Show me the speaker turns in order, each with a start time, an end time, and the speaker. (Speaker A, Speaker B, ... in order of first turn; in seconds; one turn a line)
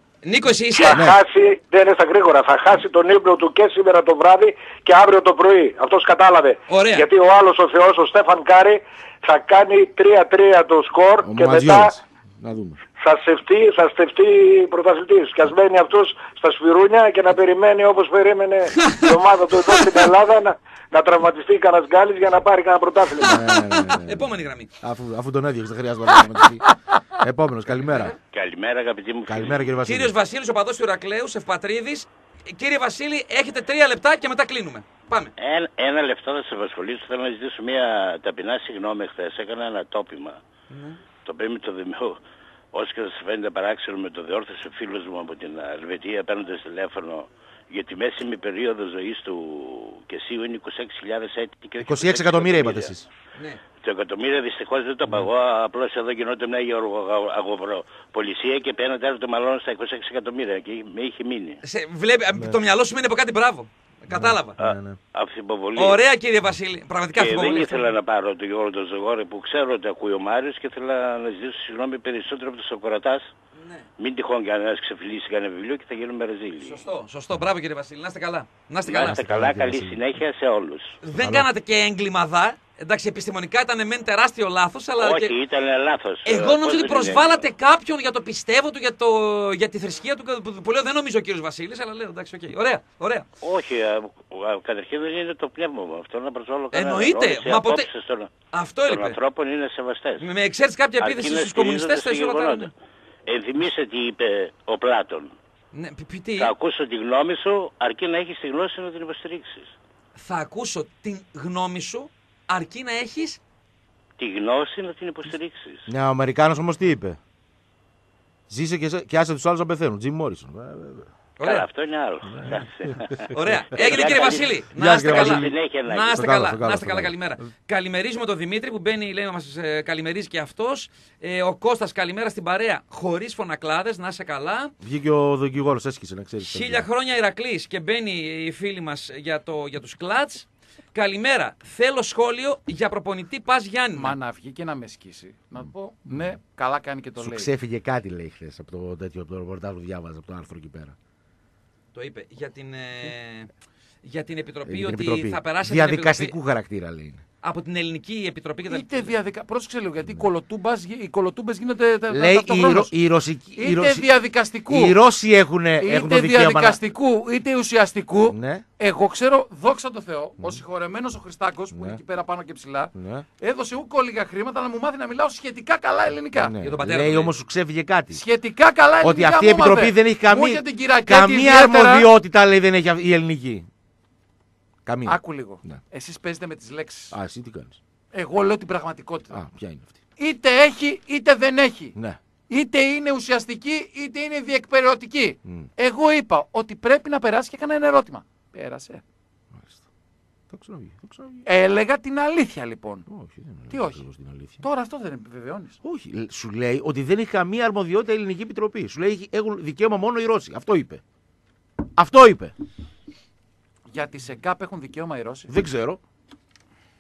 Speaker A: 0.2-1.0
Speaker B: 0.8-11.9
Speaker C: 0.9-1.2
Speaker A: 6.7-7.1
Speaker C: 11.2-12.8
Speaker B: 13.0-23.3
Speaker A: 18.8-20.0
Speaker A: 23.2-24.7
Speaker C: 23.2-26.6
Speaker C: 27.2-28.1
Speaker A: 27.8-28.1
Speaker D: 28.3-29.7
Speaker C: 29.2-30.1
Speaker A: 29.8-35.3
Speaker D: 35.4-40.4
Speaker A: 40.7-41.0
Speaker D: 41.2-42.2
Speaker D: 42.7-52.9
Speaker C: 51.8-53.1
Speaker D: 53.8-61.6
Speaker A: 61.6-64.5
Speaker C: 64.1-65.0
Speaker D: 64.6-66.0
Speaker A: 65.8-67.9
Speaker D: 67.2-73.3
Speaker A: 73.6-73.9
Speaker D: 74.0-76.8
Speaker A: 76.6-79.2
Speaker D: 78.8-81.0
Speaker C: 79.0-80.1
Speaker A: 81.0-85.3
Speaker C: 81.1-81.5
Speaker D: 85.0-87.4
Speaker A: 86.2-93.2
Speaker D: 93.4-98.3
Speaker A: 96.7-97.9
Speaker A: 98.5-99.2
Speaker D: 98.9-100.3
Speaker A: 100.2-102.7
Speaker D: 101.0-102.7
Speaker D: 103.3-105.3
Speaker A: 105.7-106.5
Speaker D: 106.4-109.7
Speaker A: 110.2-113.4
Speaker D: 114.2-115.8
Speaker C: 115.9-117.2
Speaker C: 118.5-121.1
Speaker A: 121.4-121.7
Speaker D: 121.4-126.4
Speaker C: 122.4-122.6
Speaker A: 123.3-134.7
Speaker C: 124.7-127.1
Speaker C: 134.8-136.8
Speaker A: 136.4-144.2
Speaker E: 143.9-147.5
Speaker C: 147.2-150.9
Speaker A: 151.9-153.5
Speaker A: 154.0-156.3
Speaker C: 154.7-157.2
Speaker A: 157.4-159.1
Speaker E: 158.7-162.9
Speaker C: 162.1-164.1
Speaker E: 163.6-165.0
Speaker C: 164.7-166.8
Speaker E: 165.8-176.5
Speaker C: 168.3-168.6
Speaker C: 171.7-172.0
Speaker C: 172.9-173.2
Speaker C: 176.3-178.2
Speaker A: 176.6-177.3
Speaker E: 178.1-182.1
Speaker C: 179.0-183.7
Speaker C: 184.8-185.8
Speaker E: 185.1-187.1
Speaker C: 187.1-187.8
Speaker E: 188.1-189.4
Speaker C: 189.3-189.9
Speaker E: 190.2-191.9
Speaker E: 192.5-199.0
Speaker C: 199.5-199.8
Speaker C: 200.5-201.4
Speaker E: 201.4-203.1
Speaker C: 203.1-204.6
Speaker E: 203.7-204.0
Speaker E: 204.6-205.8
Speaker C: 205.8-211.0
Speaker C: 211.9-212.5
Speaker E: 213.9-215.5
Speaker C: 215.5-216.0